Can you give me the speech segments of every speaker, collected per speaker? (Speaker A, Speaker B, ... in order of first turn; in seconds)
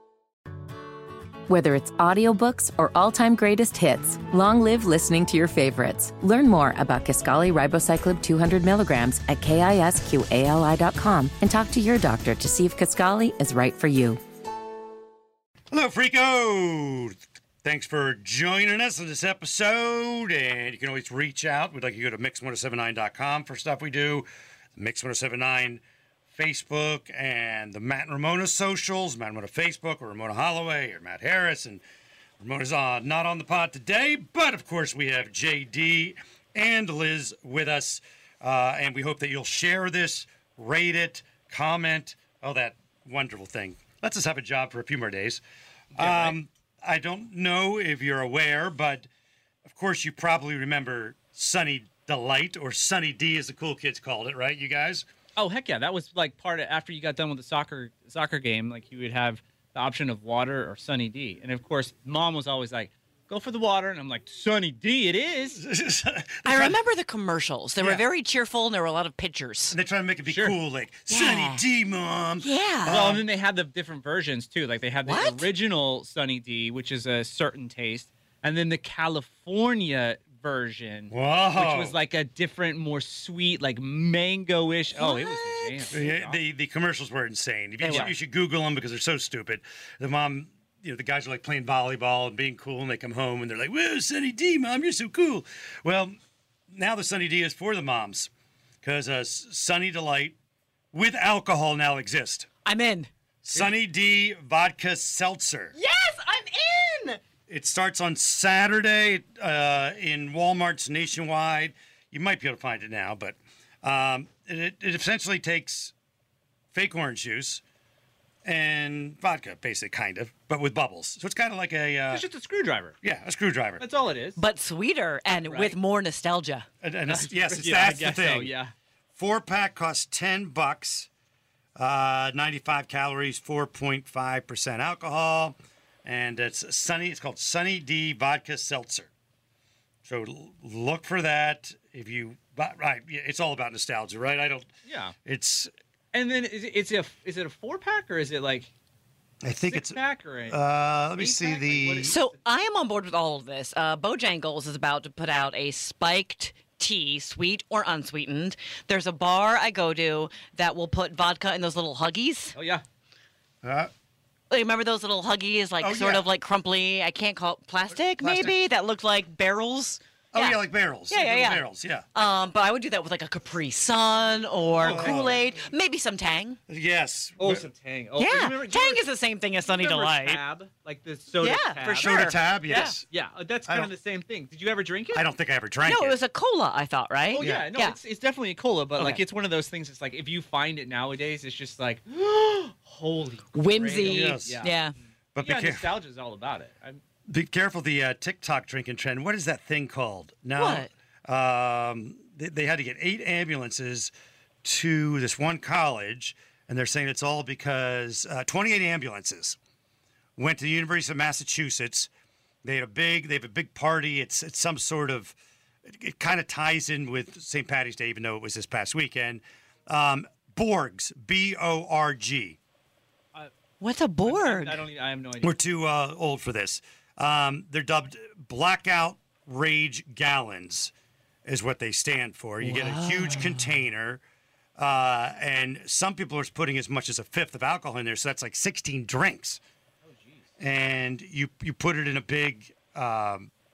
Speaker A: 1.5-14.2
Speaker B: 15.7-31.8, 32.4-45.4, 45.9-49.1, 49.6-55.0, 65.5-66.8, 67.8-68.0, 69.7-73.2, 81.1-82.0, 85.9-96.1, 96.7-98.3, 98.8-100.3, 100.9-102.5, 103.4-105.7, 107.5-115.9, 116.7-117.6, 118.4-122.2, 123.0-123.8, 126.8-128.5, 129.1-131.1, 131.8-139.1, 140.0-144.7, 145.2-145.7, 149.4-152.1, 163.6-163.9, 165.8-166.3, 168.1-168.6, 170.3-172.0, 174.8-175.5, 176.7-177.7, 181.9-183.0, 183.7-183.9, 185.1-186.2, 187.4-187.7, 194.0-194.6, 195.3-195.9, 197.3-204.1, 204.6-209.6, 210.4-212.1, 212.6-215.4, 215.9-222.6, 225.4-230.9, 231.4-234.2, 234.8-239.6, 240.6-243.5
Speaker C: 45.9-46.4, 55.4-65.6, 70.3-70.5, 72.9-86.4, 87.8-88.1, 122.1-123.0, 123.8-124.4, 125.3-125.8, 127.1-128.7, 144.8-145.1, 146.1-148.7, 149.6-150.6, 151.2-152.3, 162.5-162.8, 174.8-175.4, 177.4-179.0, 179.6-185.2, 187.3-194.8, 195.4-197.0, 224.2-225.6, 240.0-240.5
Speaker D: 66.4-69.8, 71.1-71.6, 72.4-73.0, 75.0-75.5, 84.9-85.9, 87.8-88.1, 102.6-103.1, 105.7-107.2, 124.3-126.7, 152.0-162.6, 164.5-176.6, 178.2-180.4, 181.4-183.0, 185.8-188.0, 188.9-189.2, 193.5-194.9, 200.6-200.9, 223.8-224.8, 232.6-233.8